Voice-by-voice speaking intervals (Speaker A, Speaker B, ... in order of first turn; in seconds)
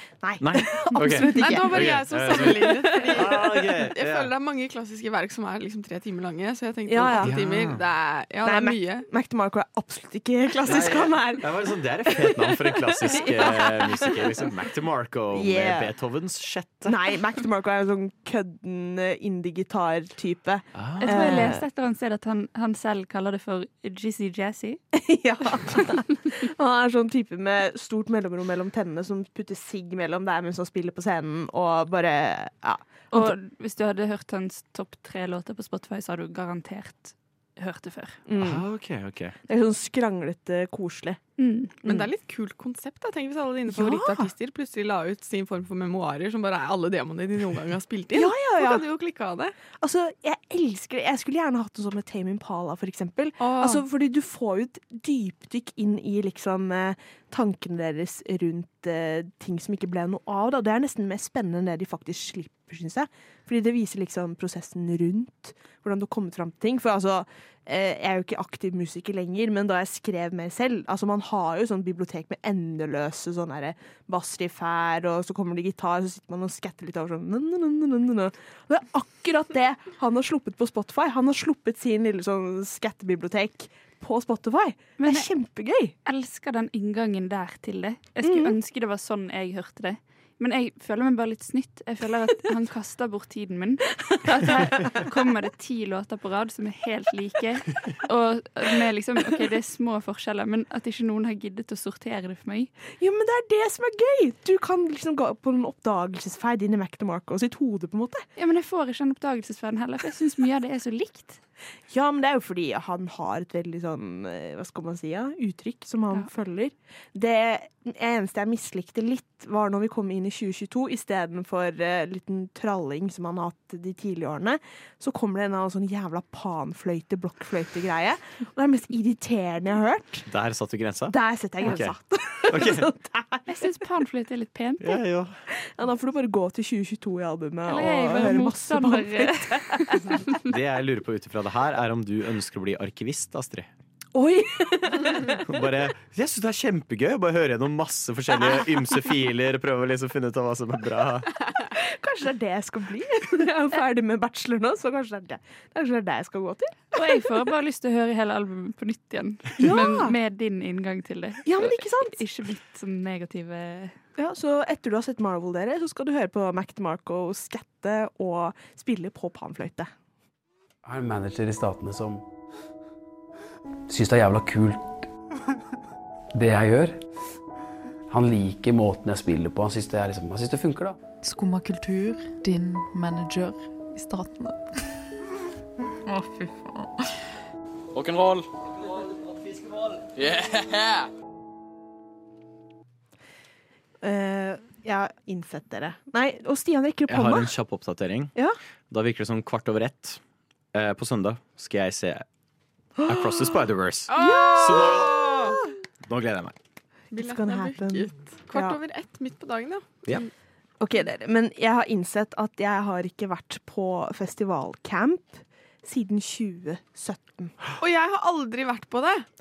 Speaker A: 0.2-3.5, 6.9-7.4, 8.4-14.3, 15.3-15.9, 16.9-21.6, 24.9-33.4, 38.3-38.7, 39.5-41.2, 41.8-42.1, 43.7-44.3, 48.1-48.9, 49.8-85.9, 88.2-88.6, 94.5-95.0, 103.0-108.3, 111.9-130.3, 131.1-133.7, 135.5-140.2, 144.1-145.4, 151.7-156.8, 159.6-160.2, 161.4-162.2, 164.2-169.9, 194.0-197.5, 203.0-203.6, 204.2-205.5, 207.1-208.8, 210.8-217.6
Speaker B: 0.4-4.3, 7.2-7.8, 10.6-17.0, 20.8-21.5, 38.4-39.4, 130.3-131.9, 132.5-132.9, 134.8-135.4, 140.4-143.7, 145.4-151.5, 197.1-198.3, 198.9-200.2, 200.7-202.2, 203.1-206.6
Speaker C: 1.2-9.1, 41.9-49.5, 53.4-53.8, 204.1-205.6, 207.1-210.3, 217.8-219.3
Speaker D: 21.0-24.8, 33.1-38.2, 41.4-41.7, 85.0-85.3, 86.0-102.7, 108.4-111.4, 133.5-135.0, 137.7-140.2, 156.9-164.0
Speaker E: 170.8-172.2, 173.9-175.1, 176.3-177.0, 178.1-181.0
Speaker F: 181.2-184.6, 186.1-186.9